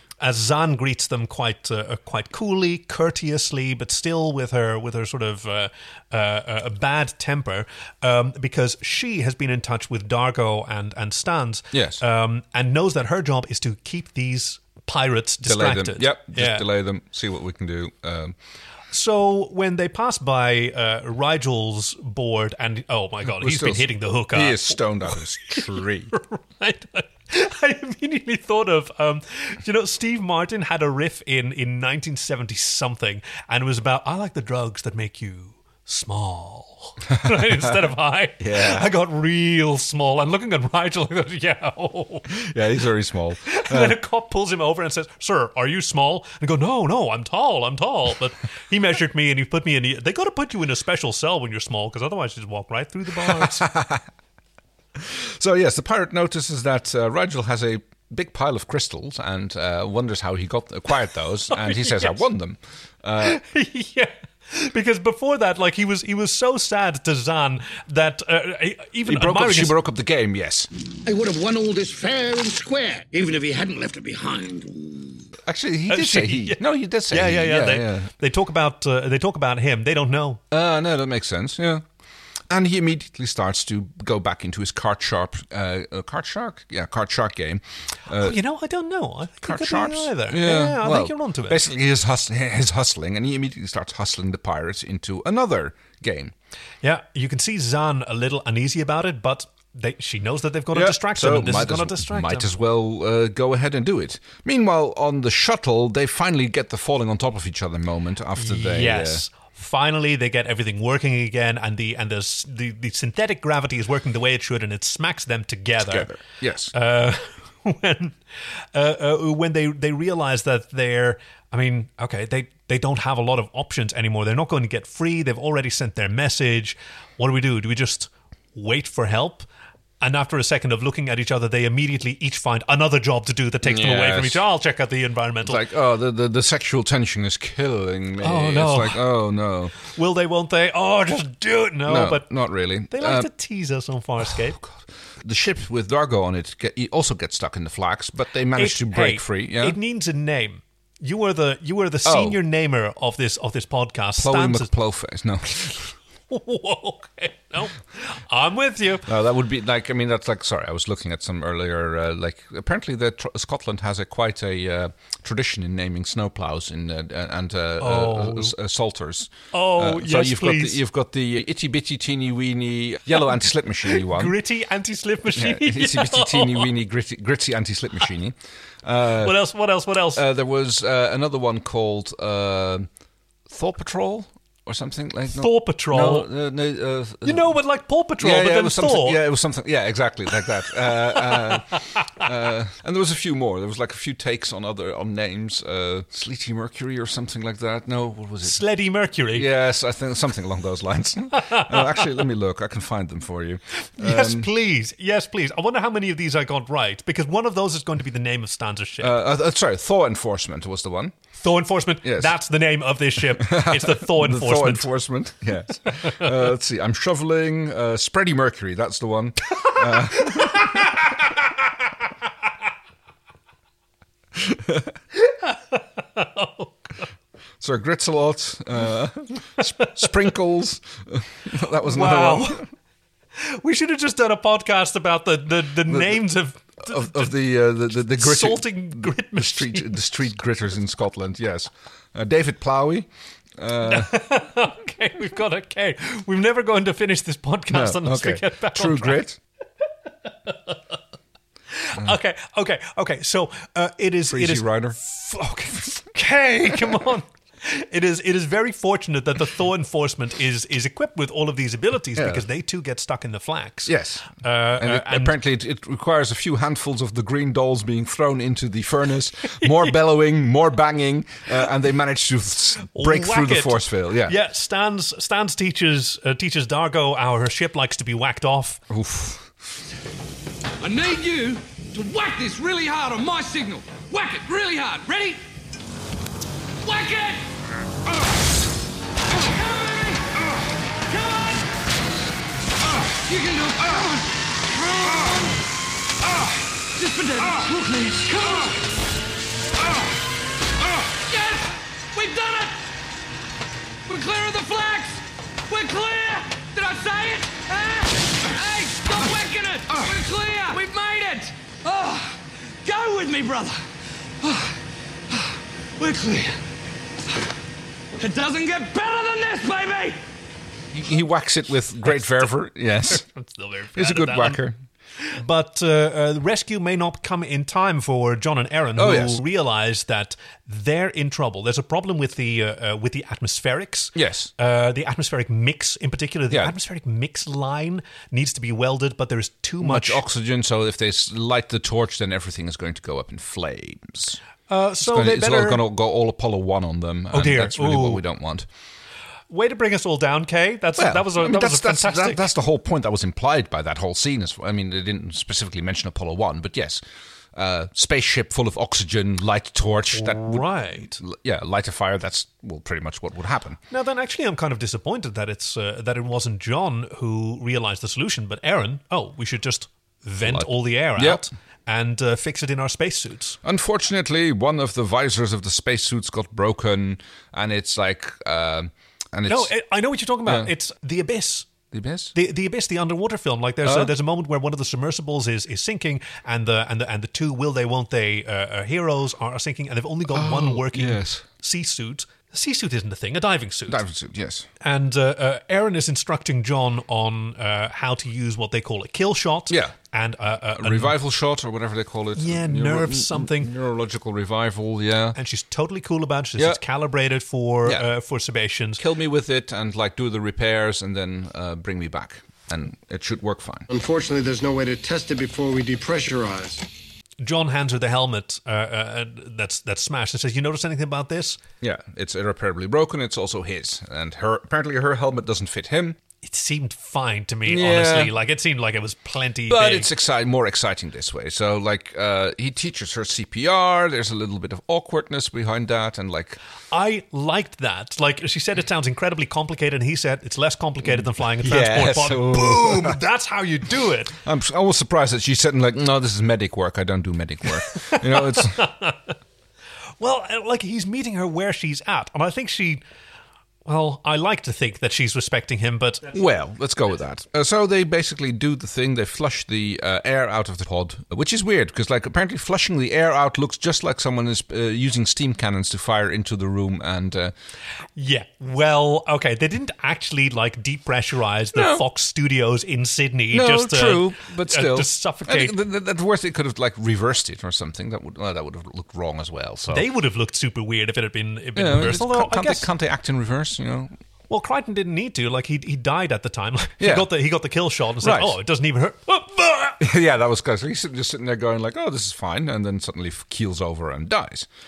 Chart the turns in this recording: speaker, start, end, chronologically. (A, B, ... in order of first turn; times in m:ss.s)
0:00.2-0:16.6 A
0:11.7-0:12.0 B
0:15.4-0:18.4 B
0:18.9-0:42.3 A
0:23.3-0:26.1 B
0:37.2-0:37.7 B
0:38.4-0:38.9 B
0:42.3-0:44.0 B
0:43.5-0:53.7 A
0:53.2-0:54.0 B
0:55.0-1:03.4 B
1:01.5-1:02.2 A
1:03.2-1:09.8 A
1:09.1-1:10.7 B
1:11.1-1:15.2 C
1:15.5-1:18.1 B
1:15.9-1:20.4 A
1:20.5-1:21.8 B
1:22.5-1:28.4 B
1:28.2-1:31.6 A
1:29.4-1:36.3 B
1:36.8-1:42.5 A
1:40.7-1:49.3 B
1:48.4-1:56.1 A
1:55.8-1:56.7 B
1:56.7-1:58.2 A
1:58.7-2:09.5 A
2:10.0-2:15.6 A
2:13.6-2:14.4 B
2:15.4-2:19.7 B
2:18.2-2:19.0 A
2:19.8-2:22.3 A
2:21.9-2:23.3 B
2:22.9-2:24.6 A
2:24.2-2:29.8 B
2:28.6-2:34.7 A
2:32.0-2:32.4 B
2:34.2-2:36.0 B
2:36.3-2:39.1 A
2:39.1-2:54.4 B
2:47.8-2:48.6 A
2:49.5-2:50.8 A
2:53.9-2:56.7 A
2:55.3-2:59.4 B
2:59.2-3:00.2 A
3:00.2-3:02.9 B
3:03.5-3:07.5 B
3:05.3-3:06.3 A
3:07.2-3:09.2 A
3:08.2-3:18.6 B
3:11.2-3:12.0 A
3:18.4-3:19.5 A
3:19.3-3:24.5 B
3:21.4-3:22.0 A
3:24.0-3:29.2 A
3:29.0-3:31.2 B
3:31.4-3:34.9 A
3:32.0-3:32.4 B
3:33.2-3:41.0 B
3:40.2-3:40.7 A
3:44.4-3:44.9 B
3:45.2-3:46.7 A
3:47.6-3:52.7 B
3:51.8-3:52.6 A
3:53.4-3:57.4 A
3:55.9-3:56.2 B
3:56.8-4:04.2 B
3:58.0-4:00.0 A
4:03.8-4:09.2 A
4:07.7-4:09.4 B
4:10.5-4:10.8 A
4:11.8-4:25.4 A
4:14.3-4:15.0 B
4:22.2-4:22.4 B
4:23.9-4:34.4 B
4:32.9-4:38.8 A
4:38.9-4:39.5 B
4:40.8-4:45.4 D
4:46.8-4:47.4 D
4:49.3-4:50.4 D
4:51.1-4:51.7 D
4:53.1-4:55.5 D
4:56.9-4:58.8 D
5:01.0-5:02.8 D
5:04.1-5:13.8 D
5:14.4-5:14.7 D
5:16.0-5:16.6 D
5:18.2-5:20.2 D
5:20.9-5:23.3 B
5:22.1-5:22.5 A
5:23.1-5:24.6 A
5:24.0-5:24.8 B
5:25.3-5:40.2 A
5:29.0-5:29.4 B
5:34.2-5:34.5 B
5:39.8-5:44.4 B
5:44.7-5:45.8 A
5:45.0-5:48.7 B
5:47.3-5:48.2 A
5:49.5-5:52.5 A
5:51.0-5:57.0 B
5:57.5-6:00.7 B
6:00.1-6:01.2 A
6:01.2-6:03.8 B
6:03.9-6:13.6 A
6:10.4-6:11.4 B
6:13.6-6:19.7 B
6:19.5-6:21.7 A
6:21.9-6:22.3 B
6:22.4-6:34.0 A
6:23.8-6:24.1 B
6:30.3-6:31.4 B
6:33.9-6:34.7 B
6:34.8-6:41.1 A
6:39.7-6:40.0 B
6:40.8-6:45.4 B
6:42.4-6:43.7 A
6:45.4-6:49.0 A
6:49.0-6:53.9 B
6:53.9-6:56.8 E
6:57.4-7:01.6 A
7:01.8-7:06.2 B
7:06.4-7:10.1 A
7:07.7-7:08.3 B
7:09.7-7:16.6 B
7:16.9-7:24.4 A
7:21.0-7:23.2 B
7:24.4-7:28.8 B
7:27.9-7:29.3 A
7:30.2-7:33.0 A
7:33.8-7:36.4 A
7:36.3-7:47.5 B
7:48.2-7:55.8 A
7:51.7-7:52.0 B
7:53.5-8:00.1 B
7:59.9-8:02.9 A
8:01.8-8:04.2 B
8:04.5-8:10.0 A
8:07.0-8:07.3 B
8:08.2-8:08.6 B
8:10.0-8:14.7 B